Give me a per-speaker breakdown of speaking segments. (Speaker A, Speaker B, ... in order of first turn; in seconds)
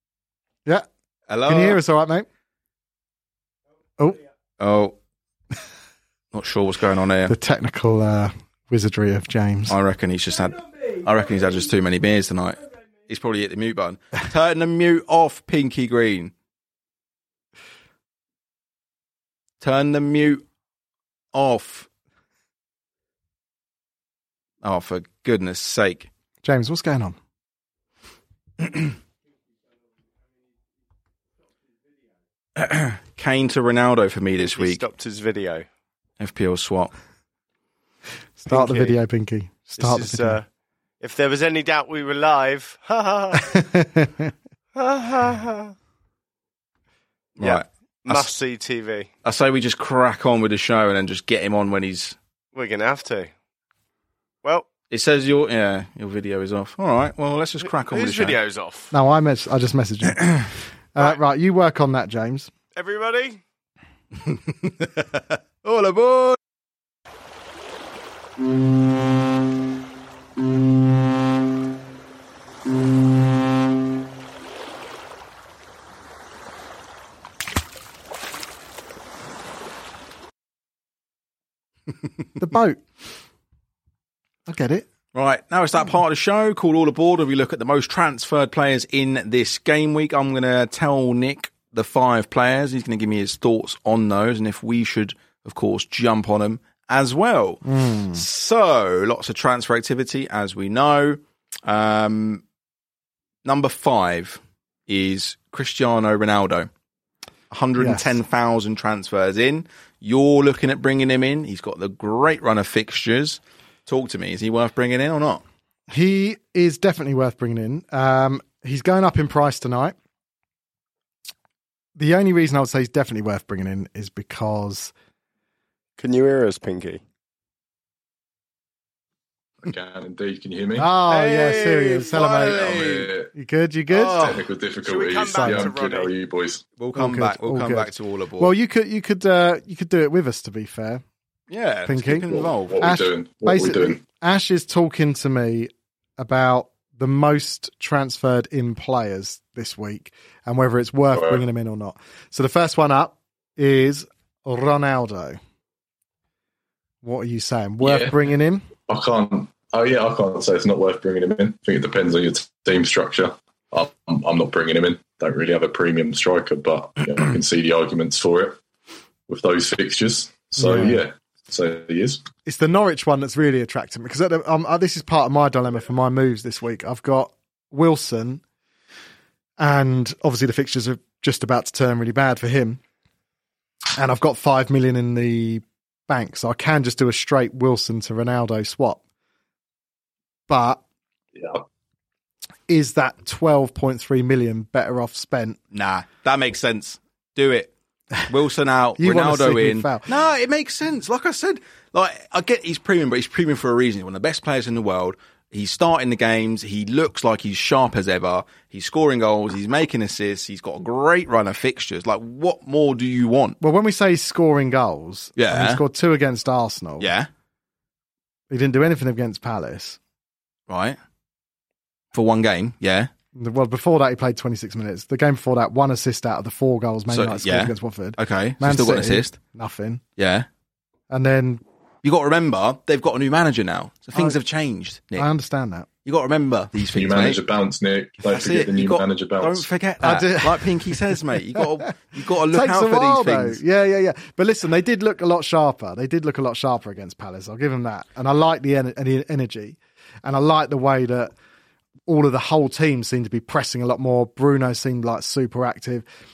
Speaker A: 1.3-1.8, 4.6-5.0, 6.3-7.3, 9.7-16.3, 19.6-20.4, 21.3-21.9, 24.6-26.1, 32.5-34.8, 36.2-36.9, 47.4-48.3, 49.2-52.1, 54.9-58.4, 64.2-66.4, 85.1-102.4, 103.4-106.7, 107.5-115.4, 131.1-133.1, 133.9-134.4, 136.8-138.5, 141.5-142.8, 195.7-197.7, 198.3-213.6, 215.4-215.8, 217.0-217.3, 220.7-221.0, 222.1-223.1, 227.1-229.4, 230.2-230.5, 232.0-235.3, 236.0-237.4, 238.3-243.6
Speaker B: 1.4-2.3, 7.3-9.8, 26.4-27.2, 38.4-40.4, 43.4-44.3, 58.9-60.4, 60.9-62.5, 82.4-82.8, 84.5-84.8, 97.6-98.2, 107.8-108.2, 115.9-119.9, 122.0-124.9, 130.8-132.7, 133.3-134.3, 135.4-135.7, 136.9-141.0, 141.8-155.4, 157.0-158.7, 170.6-171.0, 172.4-178.4, 179.6-182.8, 183.9-189.0, 190.5-190.8, 192.7-195.6, 199.0-200.1, 213.6-217.1, 218.5-220.0, 223.3-230.0, 231.1-231.6, 235.2-235.9, 240.0-241.9, 242.5-251.3, 252.1-256.0
Speaker C: 34.4-35.6, 38.5-39.0, 39.8-40.5, 41.0-43.5, 44.7-45.7, 47.4-49.1, 52.5-53.3, 57.6-58.9, 62.7-63.4, 126.0-127.0, 134.8-136.1
Speaker D: 129.6-130.9, 132.4-133.3, 134.2-136.6, 142.7-144.0, 151.1-151.4, 157.8-158.2, 158.9-168.6, 169.3-172.2, 191.4-191.6, 236.9-239.7